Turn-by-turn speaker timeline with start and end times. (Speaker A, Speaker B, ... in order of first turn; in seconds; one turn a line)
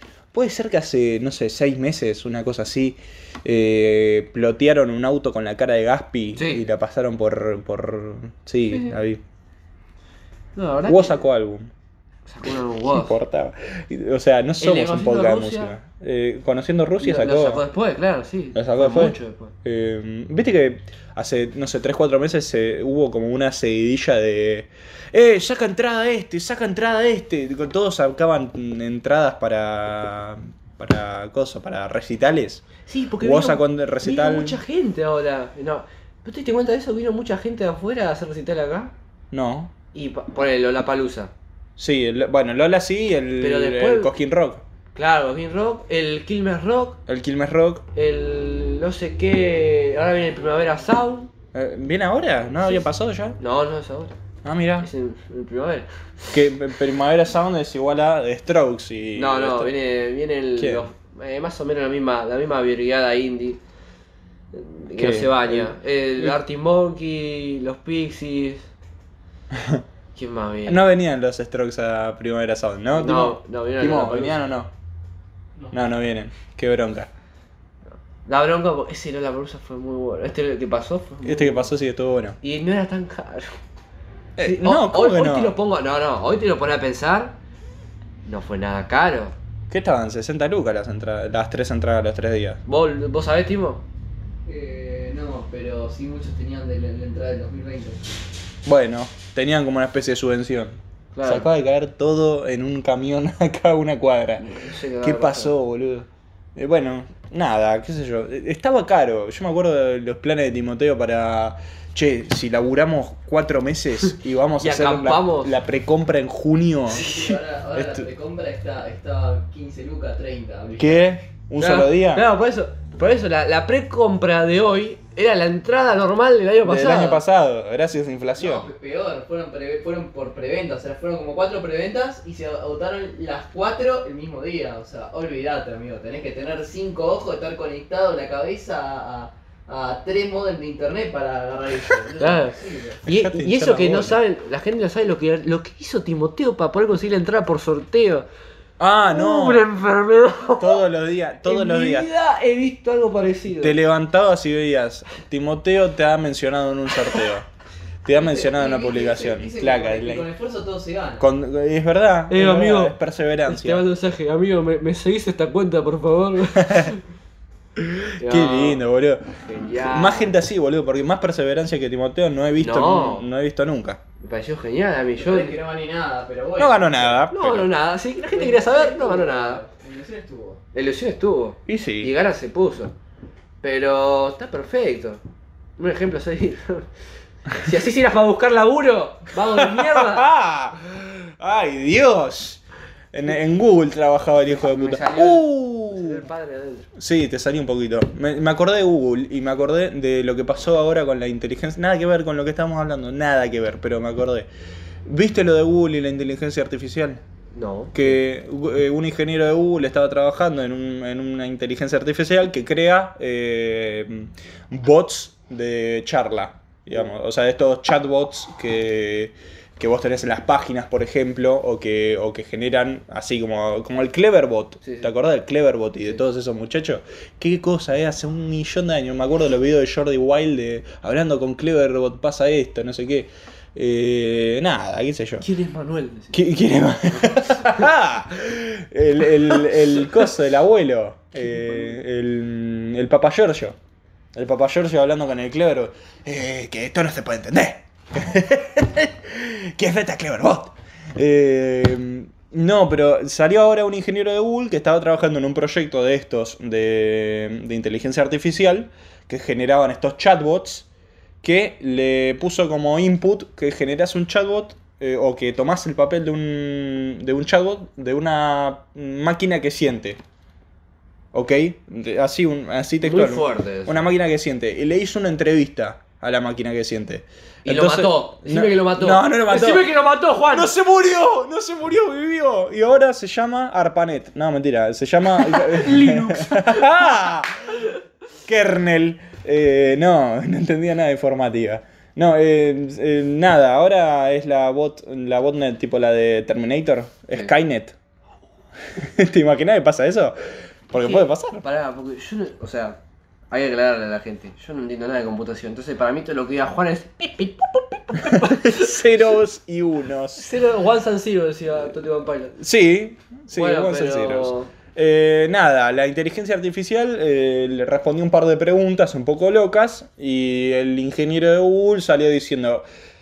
Speaker A: 0.3-9.2
Speaker B: 6.3-6.6
Speaker B: 8.7-9.0
Speaker B: 10.5-11.3
Speaker A: 10.8-11.7
Speaker B: 12.2-13.2
Speaker A: 12.8-17.6
Speaker B: 14.6-15.7
Speaker B: 17.0-19.5
Speaker A: 18.5-32.6
Speaker B: 32.9-38.9
Speaker A: 33.2-34.6
Speaker A: 39.3-39.7
Speaker B: 39.9-41.3
Speaker A: 41.8-44.6
Speaker B: 43.4-44.1
Speaker B: 44.9-47.0
Speaker A: 47.1-47.9
Speaker B: 47.9-51.3
Speaker A: 51.5-53.4
Speaker B: 53.4-54.1
Speaker A: 54.4-54.9
Speaker B: 54.8-55.9
Speaker A: 56.3-59.7
Speaker B: 59.1-63.6
Speaker A: 60.5-60.9
Speaker B: 64.5-68.7
Speaker A: 65.0-66.4
Speaker A: 69.5-69.8
Speaker B: 70.1-70.8
Speaker A: 70.7-74.7
Speaker B: 72.9-74.4
Speaker A: 75.7-77.1
Speaker B: 78.2-81.7
Speaker A: 81.2-82.4
Speaker B: 82.4-83.5
Speaker A: 84.4-85.5
Speaker B: 84.4-87.4
Speaker B: 88.2-89.3
Speaker A: 89.7-92.6
Speaker B: 92.7-93.8
Speaker C: 94.5-98.1
Speaker A: 98.6-117.2
Speaker B: 101.1-101.5
Speaker B: 104.4-105.5
Speaker B: 114.6-115.6
Speaker C: 116.9-121.2
Speaker B: 116.9-117.3
Speaker A: 117.7-118.1
Speaker A: 120.8-122.2
Speaker B: 121.6-127.2
Speaker A: 126.6-128.7
Speaker C: 128.4-143.0
Speaker B: 142.2-148.3
Speaker A: 143.0-144.2
Speaker A: 148.8-149.7
Speaker B: 149.1-150.8
Speaker A: 150.6-152.1
Speaker B: 151.4-153.8
Speaker A: 153.6-157.5
Speaker A: 158.0-160.3
Speaker C: 158.1-161.2
Speaker A: 161.2-163.8
Speaker B: 162.3-167.0
Speaker A: 166.5-166.9
Speaker A: 167.8-174.0
Speaker B: 168.2-168.8
Speaker B: 169.4-170.3
Speaker B: 172.6-173.2
Speaker B: 174.2-175.6
Speaker C: 175.2-177.2
Speaker A: 176.6-177.7
Speaker B: 177.3-179.6
Speaker C: 178.3-180.6
Speaker B: 180.7-182.9
Speaker A: 181.7-182.1
Speaker B: 183.6-185.2
Speaker B: 185.8-186.9
Speaker B: 187.5-190.3
Speaker A: 189.4-196.2
Speaker B: 194.6-196.9
Speaker A: 196.9-204.5
Speaker A: 205.0-207.2
Speaker B: 207.5-208.2
Speaker A: 207.9-235.5
Speaker B: 224.8-225.1
Speaker B: 235.4-237.9
Speaker A: 236.3-243.8
Speaker B: 239.4-240.3
Speaker B: 241.4-241.9
Speaker A: 244.3-260.9
Speaker A: 261.4-270.2
Speaker A: 271.3-279.9
Speaker B: 273.0-274.1
Speaker B: 277.6-280.7
Speaker A: 280.5-287.8
Speaker B: 285.3-287.3
Speaker A: 288.4-297.9
Speaker A: 298.9-300.4
Speaker A: 300.9-301.6
Speaker B: 301.0-303.0
Speaker B: 303.5-309.3
Speaker A: 308.2-310.5
Speaker B: 310.4-312.6
Speaker A: 312.6-322.8
Speaker B: 313.5-314.7